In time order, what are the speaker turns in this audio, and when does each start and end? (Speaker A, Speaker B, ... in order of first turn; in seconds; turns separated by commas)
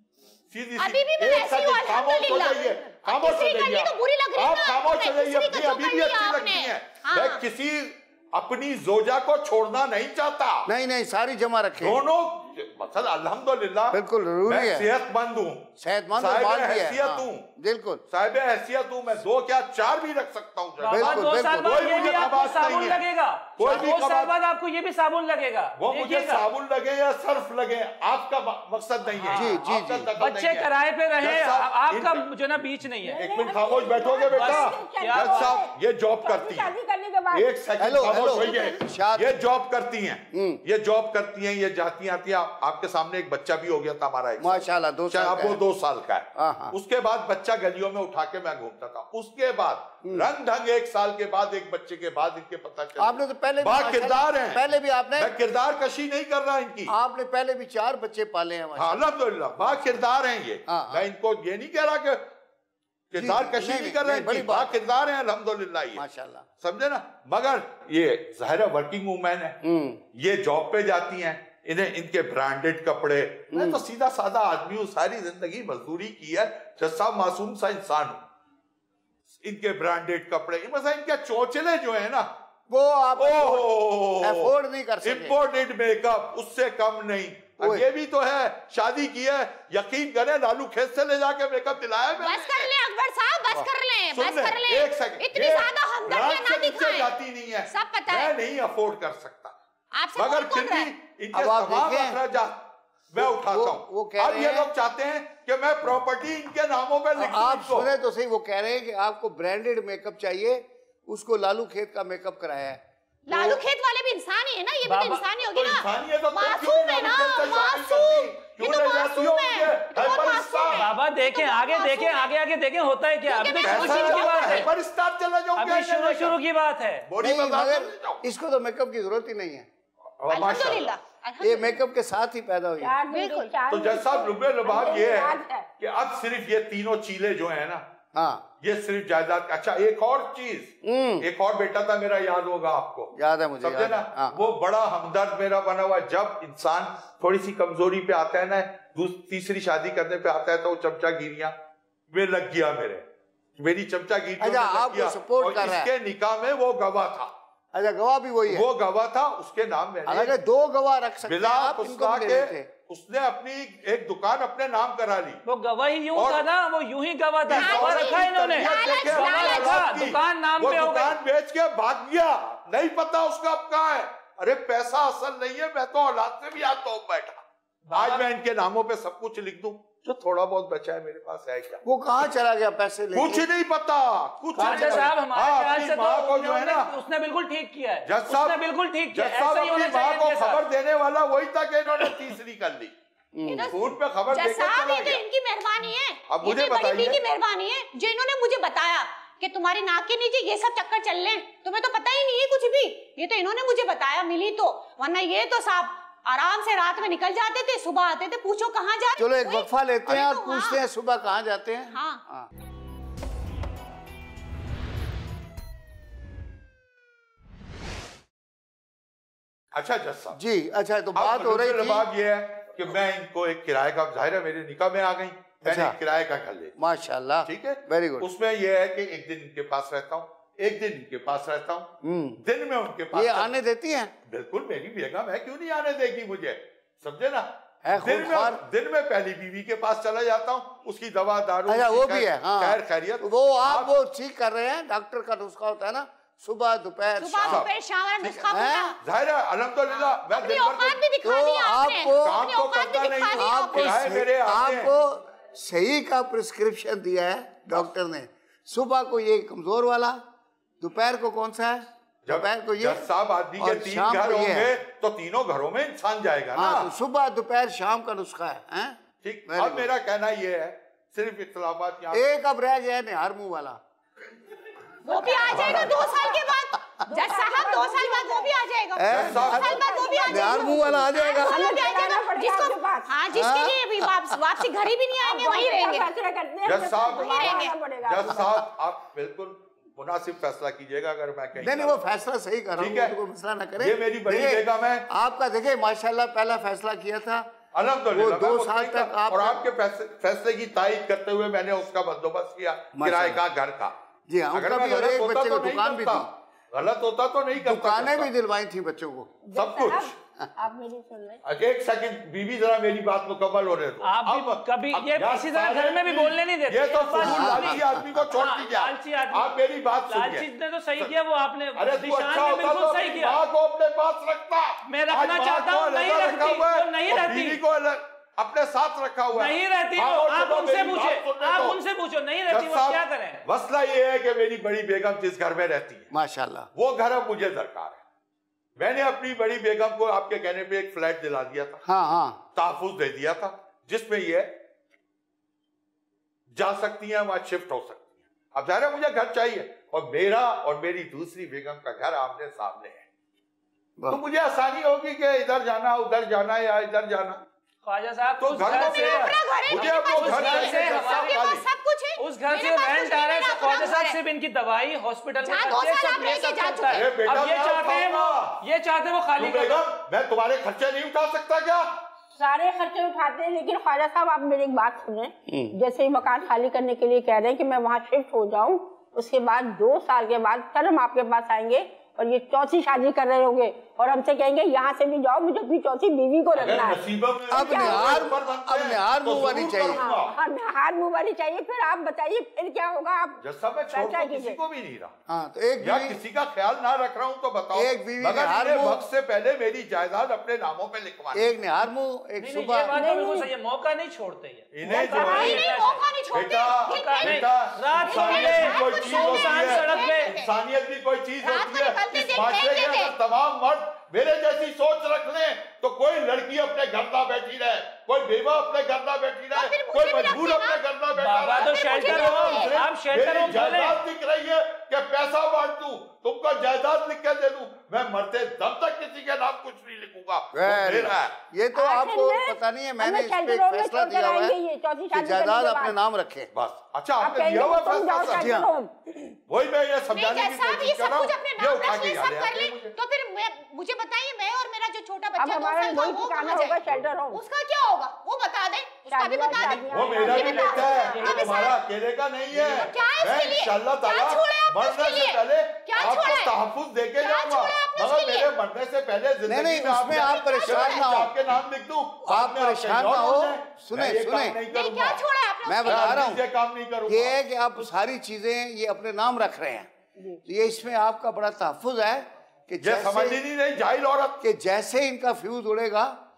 Speaker A: 0.5-10.7, Speaker B: 0.8-7.4, Speaker C: 10.7-12.0, Speaker A: 11.8-17.5, Speaker C: 13.9-14.9, Speaker C: 15.8-18.0, Speaker A: 18.1-24.3, Speaker D: 20.8-26.5, Speaker C: 20.9-22.0, Speaker A: 25.8-32.3, Speaker D: 29.1-29.6, Speaker C: 29.3-30.1, Speaker D: 30.2-33.2, Speaker E: 33.1-37.5, Speaker A: 33.2-36.8, Speaker D: 34.3-35.5, Speaker A: 37.3-54.6, Speaker C: 37.8-39.3, Speaker C: 40.3-40.6, Speaker C: 44.4-45.6, Speaker C: 46.4-46.8, Speaker C: 53.0-55.3, Speaker A: 55.2-56.9, Speaker C: 56.9-59.1, Speaker A: 58.8-62.2, Speaker C: 60.7-61.1, Speaker A: 63.1-66.0, Speaker C: 63.2-64.8, Speaker C: 66.0-66.5, Speaker A: 66.6-69.6, Speaker C: 69.6-70.0, Speaker A: 70.1-78.2, Speaker C: 73.5-73.8, Speaker A: 79.4-82.3, Speaker C: 82.7-85.4, Speaker A: 83.2-92.7, Speaker C: 87.6-87.8, Speaker B: 92.2-97.1, Speaker A: 94.1-99.6, Speaker B: 97.7-98.3, Speaker B: 99.9-100.9, Speaker A: 100.2-107.9, Speaker C: 101.3-102.2, Speaker C: 103.2-104.7, Speaker C: 107.2-113.6, Speaker B: 113.3-122.3, Speaker D: 114.8-115.2, Speaker A: 115.5-120.8, Speaker D: 120.7-124.7, Speaker B: 123.2-124.7, Speaker A: 123.6-126.4, Speaker D: 125.6-127.1, Speaker A: 127.1-128.2, Speaker C: 127.2-129.7, Speaker A: 130.2-131.0, Speaker B: 130.3-131.8, Speaker C: 131.4-133.0, Speaker E: 132.8-135.7, Speaker B: 133.1-133.5, Speaker A: 133.7-137.8, Speaker C: 138.1-138.5, Speaker A: 138.6-151.6, Speaker C: 140.8-141.3, Speaker C: 143.2-144.4, Speaker A: 152.1-153.1, Speaker A: 153.6-157.3, Speaker C: 154.4-155.9, Speaker C: 157.7-158.7, Speaker A: 158.5-160.4, Speaker C: 160.1-162.7, Speaker A: 161.2-165.4, Speaker D: 165.5-171.2, Speaker A: 166.1-166.4, Speaker A: 167.5-181.8, Speaker B: 167.6-169.9, Speaker D: 177.9-178.2, Speaker C: 181.8-183.5, Speaker A: 183.1-186.9, Speaker D: 184.6-190.6, Speaker C: 184.6-185.1, Speaker A: 188.1-188.6, Speaker A: 189.1-192.9, Speaker C: 193.3-193.7, Speaker B: 193.5-193.8, Speaker A: 193.6-195.2, Speaker B: 194.3-210.8, Speaker A: 196.3-197.2, Speaker C: 209.2-212.5, Speaker B: 211.9-212.2, Speaker A: 219.7-220.4, Speaker C: 220.3-222.1, Speaker A: 221.2-226.8, Speaker C: 225.6-226.0, Speaker C: 226.8-228.3, Speaker A: 227.4-231.9, Speaker C: 232.0-232.4, Speaker A: 232.4-233.5, Speaker C: 233.1-234.1, Speaker A: 234.3-243.9, Speaker C: 237.8-238.6, Speaker C: 241.7-247.7, Speaker B: 247.2-249.0, Speaker A: 247.4-247.7, Speaker C: 248.2-248.9, Speaker A: 249.0-251.0, Speaker B: 249.9-254.0, Speaker C: 251.2-252.4, Speaker A: 252.2-254.9, Speaker C: 253.3-260.2, Speaker C: 260.8-264.7, Speaker A: 262.3-266.9, Speaker C: 266.6-269.9, Speaker A: 269.2-272.3, Speaker C: 272.1-273.8, Speaker B: 275.1-286.1, Speaker E: 275.3-276.3, Speaker A: 275.5-275.9, Speaker C: 275.5-275.9, Speaker E: 277.1-278.6, Speaker C: 278.9-281.7, Speaker A: 279.1-279.8, Speaker E: 279.3-283.1, Speaker C: 283.3-284.5, Speaker E: 285.2-288.4, Speaker A: 286.6-292.2, Speaker B: 287.0-287.7, Speaker C: 291.6-297.5, Speaker A: 292.8-293.1, Speaker A: 293.8-295.1, Speaker A: 297.7-303.9, Speaker C: 298.1-299.6, Speaker C: 303.0-303.4, Speaker C: 304.3-306.3, Speaker A: 304.5-308.3, Speaker C: 307.6-309.3, Speaker E: 309.4-311.4, Speaker A: 309.6-310.1, Speaker A: 311.4-320.5, Speaker D: 314.0-323.4, Speaker C: 317.2-318.1, Speaker A: 321.8-331.8, Speaker D: 324.9-327.6, Speaker D: 329.3-333.4, Speaker A: 332.5-336.1, Speaker C: 336.1-336.7, Speaker A: 336.8-338.0, Speaker A: 338.8-341.8, Speaker C: 341.8-342.4, Speaker A: 342.6-344.6, Speaker A: 346.5-353.1, Speaker A: 354.1-357.4, Speaker D: 357.8-361.4, Speaker A: 358.4-361.6, Speaker B: 358.6-364.2, Speaker D: 362.2-369.8, Speaker B: 365.4-367.1, Speaker A: 366.9-368.6, Speaker A: 369.4-372.0, Speaker E: 372.4-388.3, Speaker C: 375.5-375.8, Speaker A: 386.6-390.4, Speaker C: 387.5-390.1, Speaker E: 389.9-394.6, Speaker A: 393.4-395.1, Speaker C: 395.3-396.2, Speaker A: 395.8-401.6, Speaker C: 397.7-399.1, Speaker C: 401.3-403.0, Speaker D: 402.4-406.1, Speaker E: 402.9-403.5, Speaker A: 404.7-405.8, Speaker B: 405.0-407.5, Speaker A: 406.3-431.4, Speaker D: 406.9-410.3, Speaker B: 408.0-410.5, Speaker B: 411.4-413.1, Speaker B: 419.5-420.8, Speaker D: 421.1-424.0, Speaker B: 421.5-422.8, Speaker C: 430.5-434.6, Speaker E: 431.8-436.0, Speaker C: 435.1-436.5, Speaker A: 436.5-438.5, Speaker E: 437.2-439.3, Speaker C: 438.3-438.7, Speaker A: 439.5-442.9, Speaker B: 440.1-451.8, Speaker E: 445.4-447.4, Speaker E: 449.1-451.4, Speaker A: 449.9-465.2, Speaker B: 452.5-456.6, Speaker B: 457.2-458.5, Speaker C: 459.5-461.3, Speaker B: 460.2-461.1, Speaker C: 462.2-464.6, Speaker B: 464.7-466.1, Speaker C: 465.6-466.4, Speaker A: 465.9-467.4, Speaker C: 467.1-469.9, Speaker C: 470.4-473.4, Speaker A: 472.8-474.4, Speaker C: 474.4-476.2